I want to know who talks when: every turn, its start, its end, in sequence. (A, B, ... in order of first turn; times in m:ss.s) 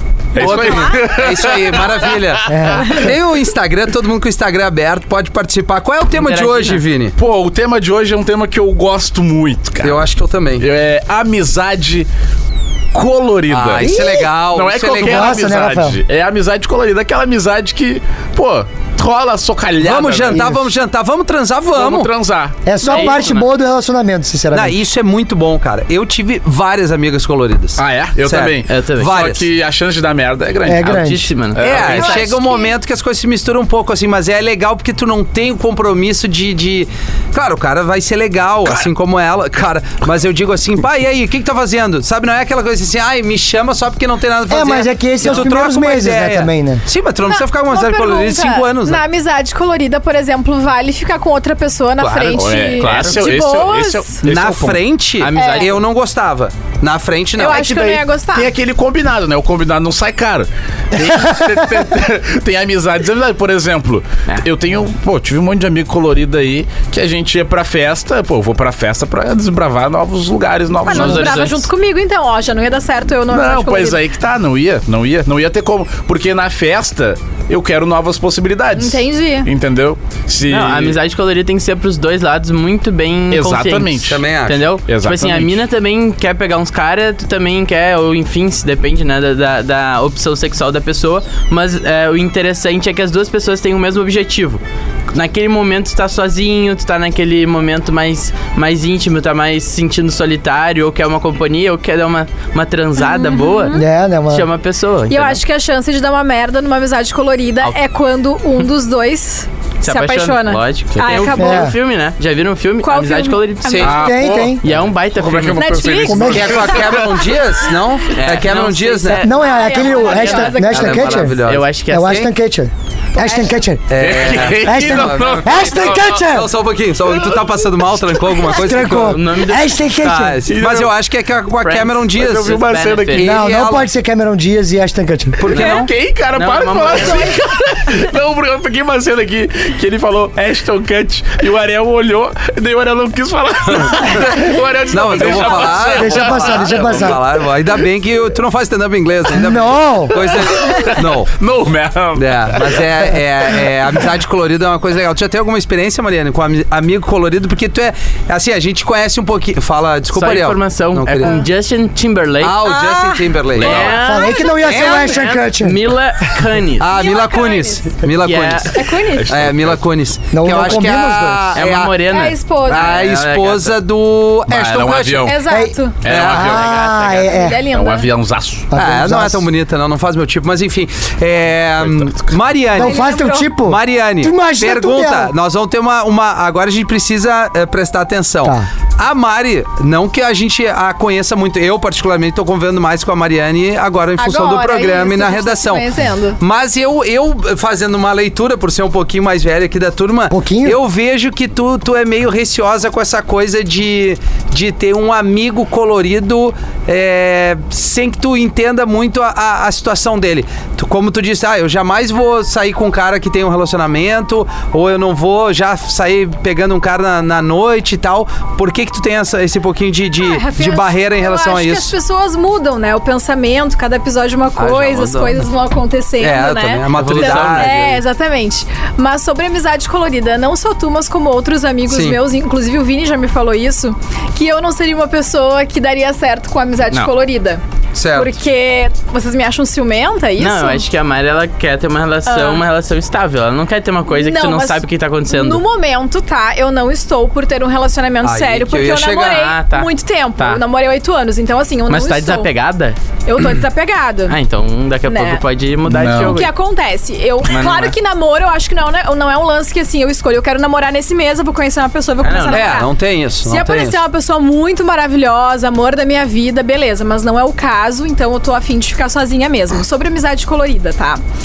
0:00.3-0:03.0 A
0:00.4-0:07.2 B
0:00.4-0:01.1 C
0:02.5-0:03.0 D
0:02.7-0:03.0 C
0:06.2-0:06.8 E
0:07.2-0:10.1 A
0:09.8-0:10.7 B
0:10.6-0:12.1 A
0:12.9-0:13.9 A
0:13.5-0:15.4 B
0:13.8-0:14.3 D
0:14.5-0:20.5 A
0:15.0-0:16.0 D
0:19.8-0:22.1 B
0:20.3-0:20.6 D
0:21.7-0:22.6 A
0:22.7-0:24.8 D
0:22.8-0:23.5 E
0:24.5-0:29.4 B
0:27.8-0:31.0 A
0:28.7-0:29.1 E
0:30.6-0:31.3 D
0:30.8-0:31.7 E
0:31.5-0:32.3 A
0:31.6-0:49.0 B
0:31.8-0:32.8 C
0:44.5-0:46.8 D
0:47.3-0:54.2 C
0:52.0-0:54.8 A
0:54.2-0:57.7 B
0:55.2-0:55.8 E
0:55.4-0:55.7 C
0:57.4-0:58.5 C
0:57.6-1:11.4 A
1:10.8-1:14.0 C
1:10.9-1:11.7 E
1:13.3-1:21.0 A
1:18.8-1:19.5 C
1:20.5-1:45.4 E
1:23.3-1:24.2 A
1:24.1-1:24.6 B
1:24.9-1:25.6 A
1:43.0-1:43.8 C
1:43.7-1:44.5 D
1:45.1-1:51.8 C
1:49.8-1:54.0 E
1:51.4-1:51.7 D
1:52.8-1:54.1 C
1:53.8-1:57.3 A
1:53.9-1:54.6 D
1:54.6-1:55.7 E
1:55.6-1:57.0 C
1:56.1-1:56.6 D
1:56.3-1:59.2 B
1:58.1-2:02.3 E
1:59.2-2:01.4 D
1:59.3-2:00.8 C
2:00.6-2:02.2 B
2:01.9-2:06.5 D
2:03.2-2:03.5 C
2:03.9-2:09.2 B
2:04.0-2:06.2 A
2:08.4-2:10.4 D
2:08.8-2:09.9 E
2:10.0-2:12.6 B
2:10.5-2:10.9 A
2:11.6-2:13.3 E
2:12.2-2:13.2 A
2:13.1-2:13.9 B
2:13.2-2:15.5 D
2:15.4-2:15.9 B
2:15.5-2:27.2 A
2:15.5-2:15.9 C
2:16.4-2:17.4 E
2:16.9-2:18.0 C
2:24.9-2:31.3 B
2:25.8-2:27.2 D
2:29.3-2:30.2 D
2:30.4-2:33.0 A
2:32.2-2:41.4 B
2:40.1-2:42.8 E
2:42.4-2:44.0 B
2:42.6-2:44.8 C
2:43.6-2:43.9 A
2:43.6-2:46.9 E
2:44.0-2:45.8 D
2:44.5-2:45.3 B
2:46.8-2:52.0 B
2:46.9-2:48.0 C
2:48.2-2:48.8 E
2:48.7-2:49.3 C
2:49.1-2:49.8 A
2:50.3-2:51.6 D
2:51.6-2:53.8 E
2:52.1-2:53.0 C
2:52.7-2:55.3 B
2:54.5-2:55.4 A
2:55.2-2:56.0 C
2:55.5-2:57.6 D
2:56.0-2:58.7 A
2:56.0-2:56.7 B
2:56.9-2:58.1 C
2:58.7-2:59.5 D
2:58.8-3:41.9 B
3:01.8-3:02.4 A
3:02.8-3:05.3 D
3:02.8-3:03.5 C
3:08.4-3:08.7 D
3:14.2-3:16.4 C
3:20.3-3:20.8 D
3:40.2-3:57.6 C
3:44.6-3:45.4 B
3:46.2-3:47.9 B
3:46.9-3:48.0 E
3:51.9-3:52.2 B
3:58.0-3:58.3 B
3:58.1-4:00.8 C
4:00.4-4:05.6 E
4:02.3-4:02.6 C
4:04.1-4:12.5 C
4:08.2-4:09.4 B
4:09.2-4:10.6 E
4:11.9-4:13.0 E
4:13.3-4:14.4 C
4:14.3-4:16.5 E
4:15.1-4:15.4 C
4:15.9-4:16.4 A
4:16.2-4:22.9 C
4:17.5-4:18.0 E
4:22.2-4:22.8 E
4:22.5-4:24.0 B
4:23.4-4:31.2 C